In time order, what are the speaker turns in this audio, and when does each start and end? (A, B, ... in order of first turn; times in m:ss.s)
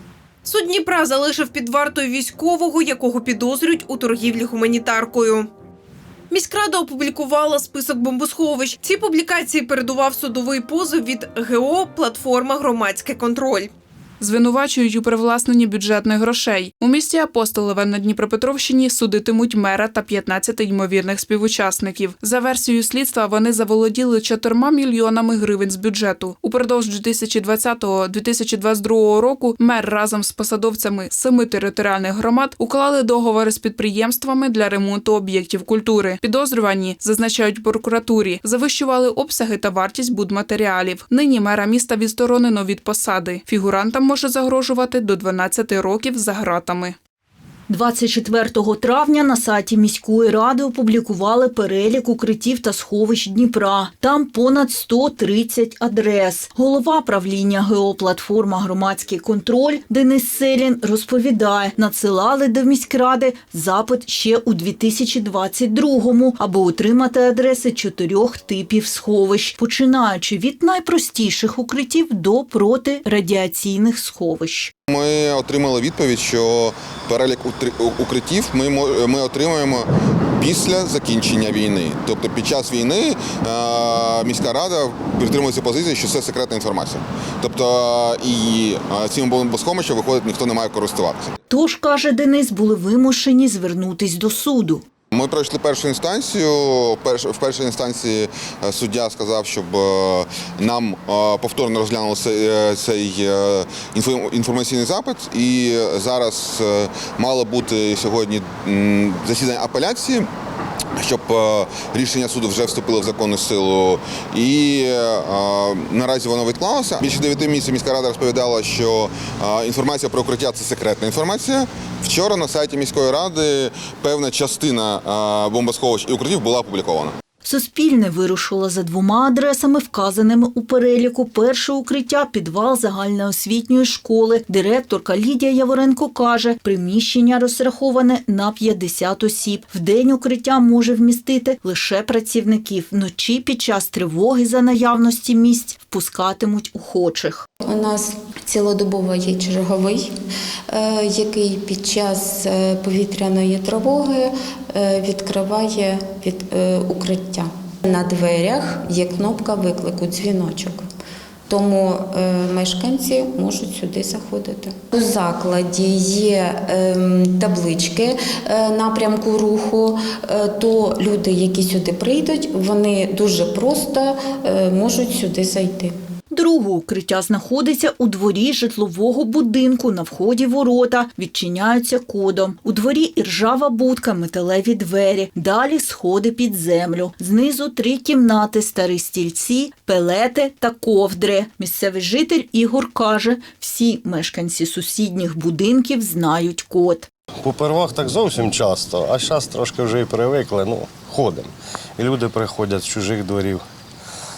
0:00.4-0:05.5 A
0:06.3-0:13.7 A
0:14.2-0:47.0 B
0:47.7-1:14.7 C
1:14.9-1:31.3 D
1:31.5-1:34.8 C
1:35.1-1:50.3 D
1:51.0-2:07.2 D
2:07.4-2:27.4 C
2:27.6-2:30.1 E
2:30.7-2:40.8 E
2:41.5-2:55.9 E
2:56.3-3:17.1 C
3:17.4-3:23.6 F